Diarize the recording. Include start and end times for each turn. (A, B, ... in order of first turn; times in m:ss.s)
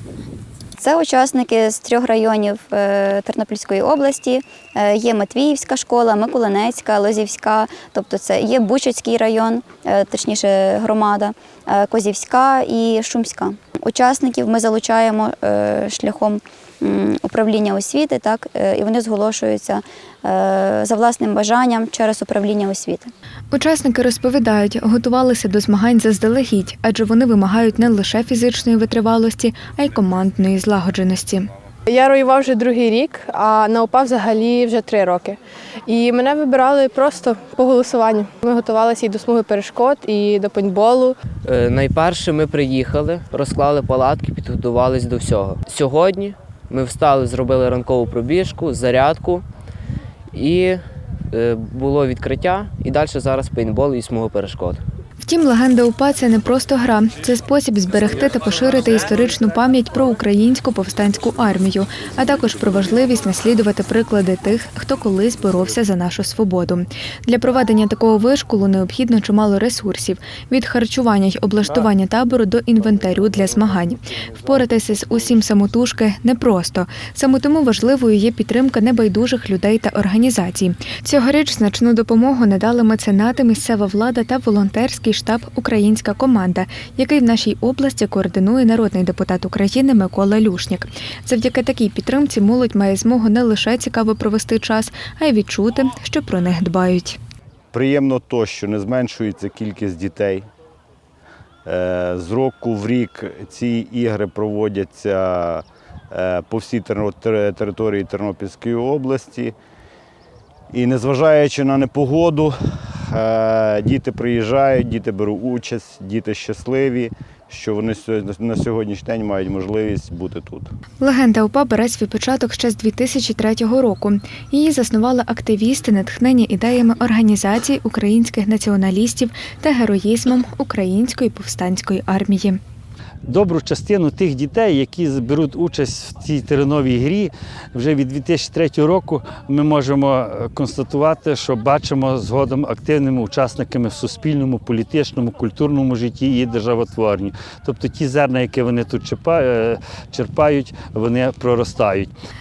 0:00.8-0:23.1 A
0:23.5-0:31.4 B
0:31.9-0:35.3 C
0:35.9-0:41.1 C
0:41.4-0:49.4 D
0:50.3-0:54.8 D
0:55.2-1:37.2 B
1:37.7-1:40.5 E
1:41.6-1:49.5 E
1:50.7-2:00.7 E
2:01.0-2:12.6 B
2:13.2-2:32.1 F